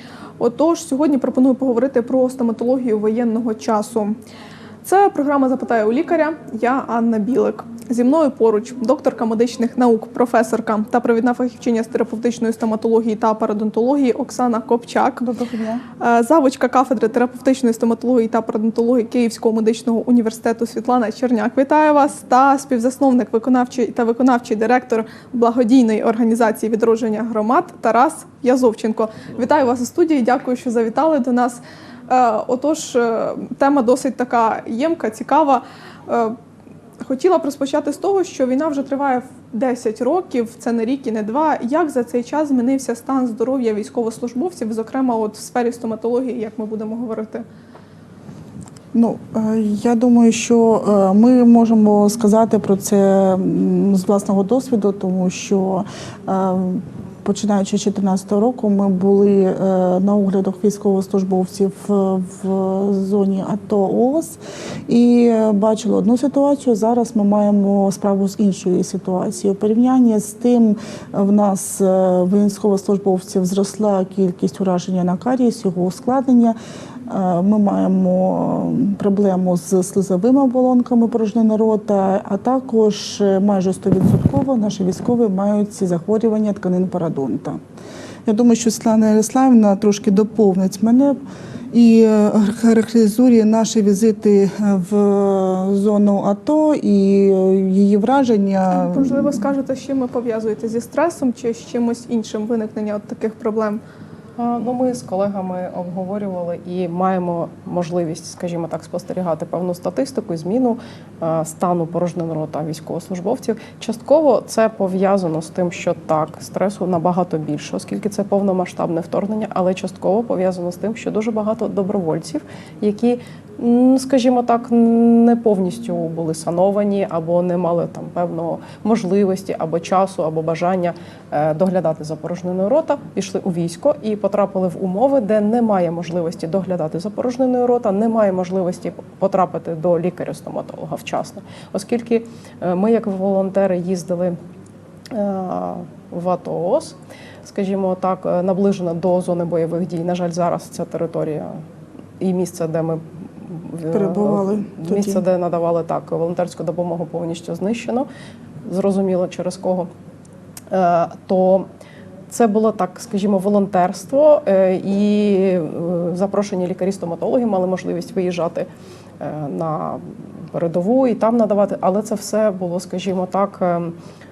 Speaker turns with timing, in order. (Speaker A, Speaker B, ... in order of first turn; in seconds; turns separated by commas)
Speaker A: 0.4-4.2, Speaker A: 4.8-15.2, Speaker B: 15.2-15.8, Speaker A: 16.0-36.3, Speaker A: 37.0-47.4, Speaker B: 48.9-76.5, Speaker B: 77.1-87.6, Speaker B: 88.2-91.2, Speaker B: 91.7-99.4, Speaker A: 98.7-103.8, Speaker C: 104.4-144.4, Speaker C: 145.1-151.6, Speaker C: 152.2-158.1, Speaker B: 153.9-155.2, Speaker C: 158.6-159.9, Speaker C: 160.7-161.7, Speaker C: 162.3-168.7, Speaker C: 169.2-173.9